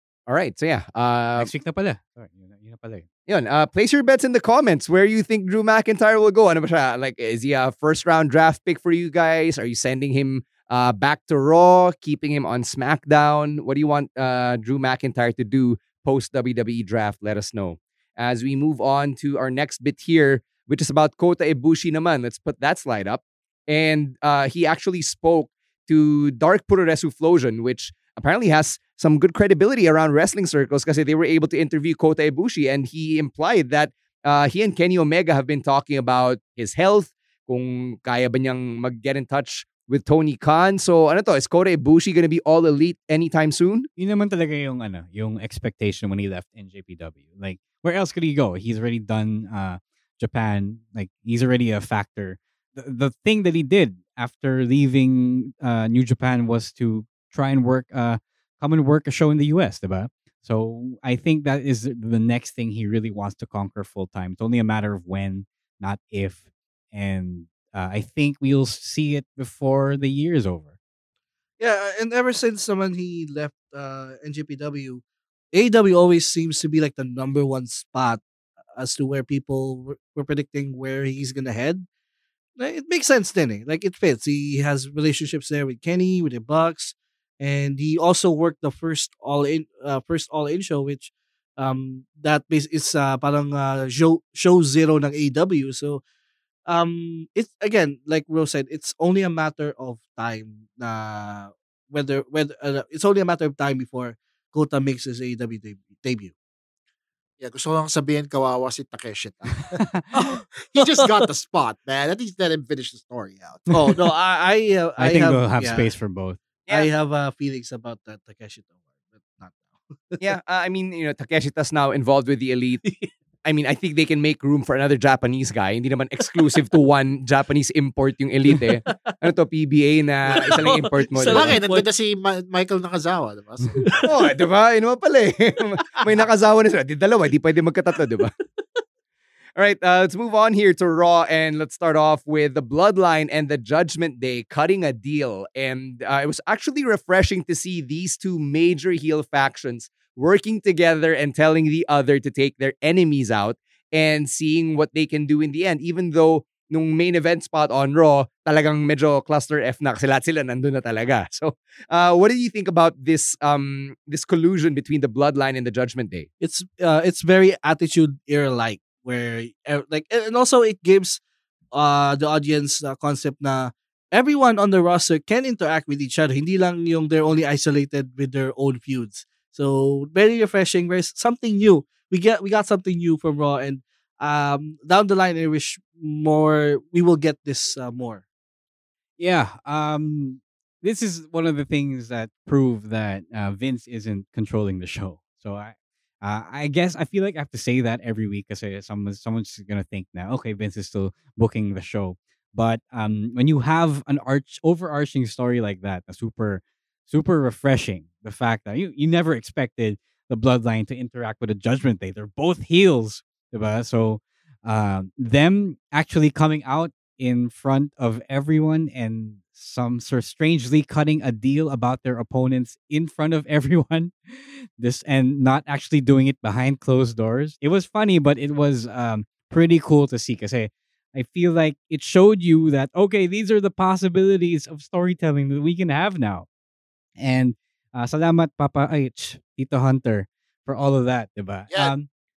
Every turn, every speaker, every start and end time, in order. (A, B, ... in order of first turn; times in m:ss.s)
0:00.3-0:01.5 A
0:01.4-0:03.1 B
0:03.3-0:43.9 A
0:44.0-1:10.7 B
1:11.6-1:18.2 C
1:18.8-1:21.8 C
1:22.6-1:36.0 C
1:36.7-1:46.3 C
1:47.4-1:49.8 D
1:50.1-1:51.2 C
1:50.6-1:53.9 D
1:53.7-1:56.0 C
1:55.0-1:56.4 B
1:56.7-1:58.7 C
1:59.2-2:00.3 C
2:00.2-2:02.8 A
2:02.8-2:03.1 C
2:03.4-2:11.6 A
2:08.5-2:09.2 C
2:10.3-2:11.9 C
2:11.3-2:13.9 D
2:13.9-2:14.2 C
2:14.0-2:18.3 A
2:19.6-2:46.3 A
2:46.4-2:51.2 C
2:51.7-3:08.2 C
3:09.2-3:56.5 B
3:57.2-4:02.1 B